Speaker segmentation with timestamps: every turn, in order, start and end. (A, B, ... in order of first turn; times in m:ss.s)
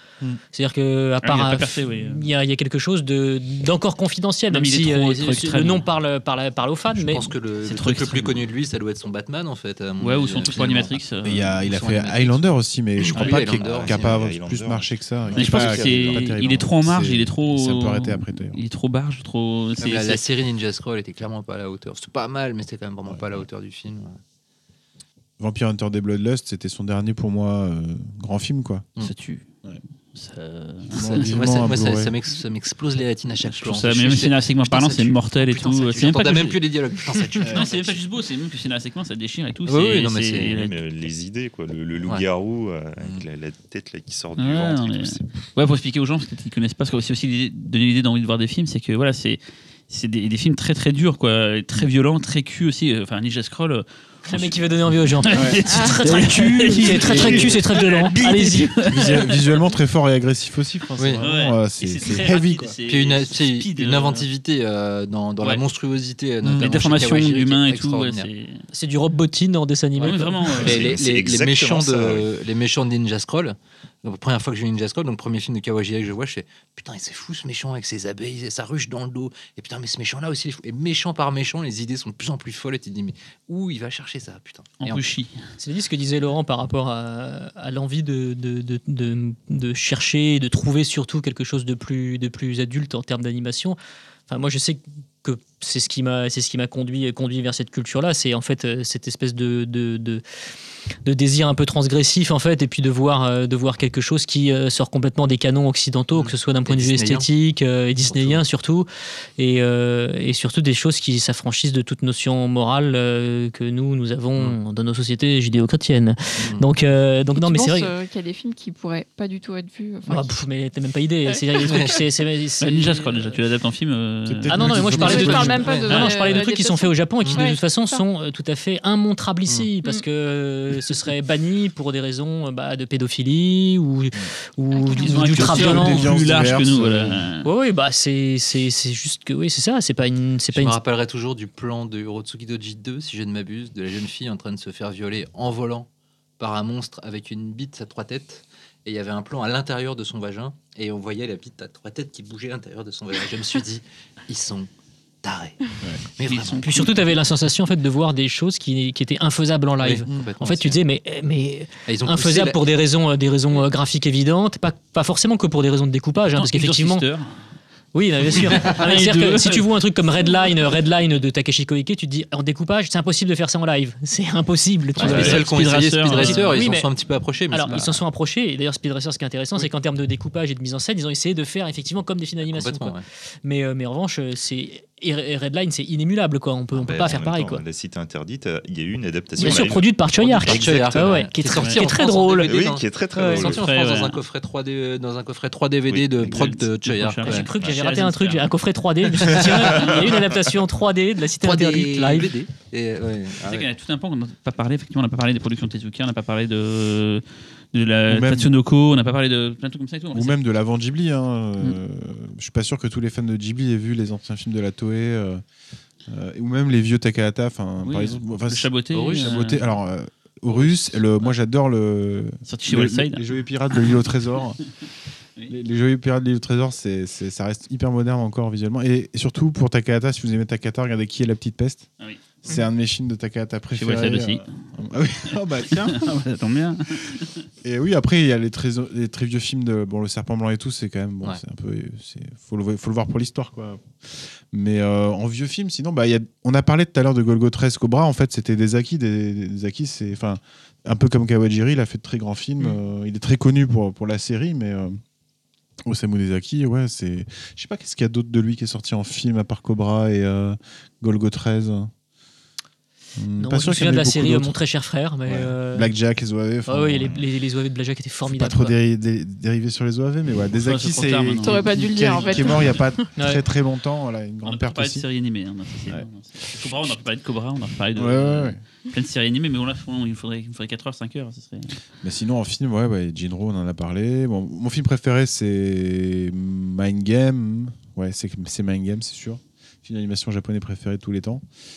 0:00.5-0:07.3 A
0:01.2-0:02.3 B
0:04.5-0:05.9 B
0:06.9-0:14.2 C
0:07.6-0:08.4 B
0:10.0-0:11.6 B
0:11.2-0:18.6 D
0:13.2-0:13.5 B
0:13.2-0:16.7 E
0:15.3-0:20.2 B
0:19.8-0:24.2 C
0:23.1-0:23.4 D
0:25.4-0:28.9 D
0:29.0-0:29.5 B
0:30.1-0:31.4 B
0:30.9-0:32.1 D
0:31.0-0:38.0 C
0:33.4-0:40.8 B
0:37.4-0:37.7 D
0:39.7-0:40.6 C
0:40.4-0:45.4 E
0:44.4-0:54.7 B
0:54.3-0:58.8 A
0:55.2-0:59.6 B
0:55.3-0:55.6 D
0:55.7-0:56.0 F
0:56.7-0:57.6 D
0:58.9-1:02.8 D
1:01.0-1:01.2 C
1:01.2-1:04.3 B
1:02.9-1:08.3 C
1:06.4-1:06.8 D
1:06.5-1:08.7 B
1:08.7-1:10.7 A
1:10.0-1:10.8 B
1:10.0-1:25.0 C
1:10.6-1:12.3 E
1:24.8-1:25.4 B
1:25.6-1:40.2 A
1:41.0-1:57.9 A
1:46.2-1:47.3 C
1:48.1-1:48.4 C
1:56.4-1:56.6 C
1:57.4-2:00.3 F
2:00.1-2:03.4 A
2:01.3-2:02.0 F
2:01.6-2:02.0 C
2:02.6-2:06.3 B
2:04.3-2:05.8 D
2:04.5-2:16.1 A
2:05.0-2:08.0 F
2:14.7-2:15.1 F
2:15.0-2:17.5 B
2:15.3-2:17.3 D
2:17.4-2:20.8 A
2:20.5-2:25.9 C
2:26.4-2:34.7 C
2:35.2-2:36.9 C
2:36.2-2:37.1 B
2:36.6-2:47.1 A
2:39.8-2:40.8 C
2:40.1-2:40.3 D
2:41.9-2:42.6 C
2:46.4-2:47.4 B
2:47.9-2:55.5 A
2:48.3-2:49.7 B
2:55.0-2:58.0 C
2:55.0-2:55.4 E
2:55.0-2:56.6 B
2:56.1-2:56.9 A
2:57.5-3:07.6 A
3:02.5-3:03.0 C
3:06.8-3:11.3 E
3:09.4-3:12.6 A
3:09.4-3:17.5 C
3:11.5-3:11.9 B
3:12.4-3:13.7 E
3:13.1-3:13.6 A
3:13.4-3:14.2 B
3:15.9-3:16.5 E
3:16.2-3:18.5 B
3:17.1-3:22.3 A
3:17.6-3:17.9 E
3:19.2-3:19.8 C
3:19.3-3:20.2 B
3:21.4-3:23.7 C
3:23.4-3:30.4 B
3:28.1-3:28.5 D
3:30.1-3:35.4 D
3:36.1-3:44.6 D
3:37.8-3:39.7 B
3:38.9-3:39.3 C
3:40.5-3:41.3 B
3:42.5-3:44.0 B
3:45.5-3:51.9 D
3:52.4-3:56.1 D
3:53.8-3:54.6 B
3:55.4-3:57.5 B
3:57.6-4:15.0 D
4:15.8-4:21.9 D
4:23.2-4:24.6 D
4:23.4-4:25.9 A
4:25.3-4:27.1 D
4:26.7-4:28.8 A
4:27.0-4:27.3 E
4:28.3-4:35.1 D
4:30.5-4:32.8 B
4:31.4-4:33.0 F
4:33.2-4:33.4 A
4:34.4-4:41.8 B
4:38.0-4:38.6 D
4:42.0-4:51.4 D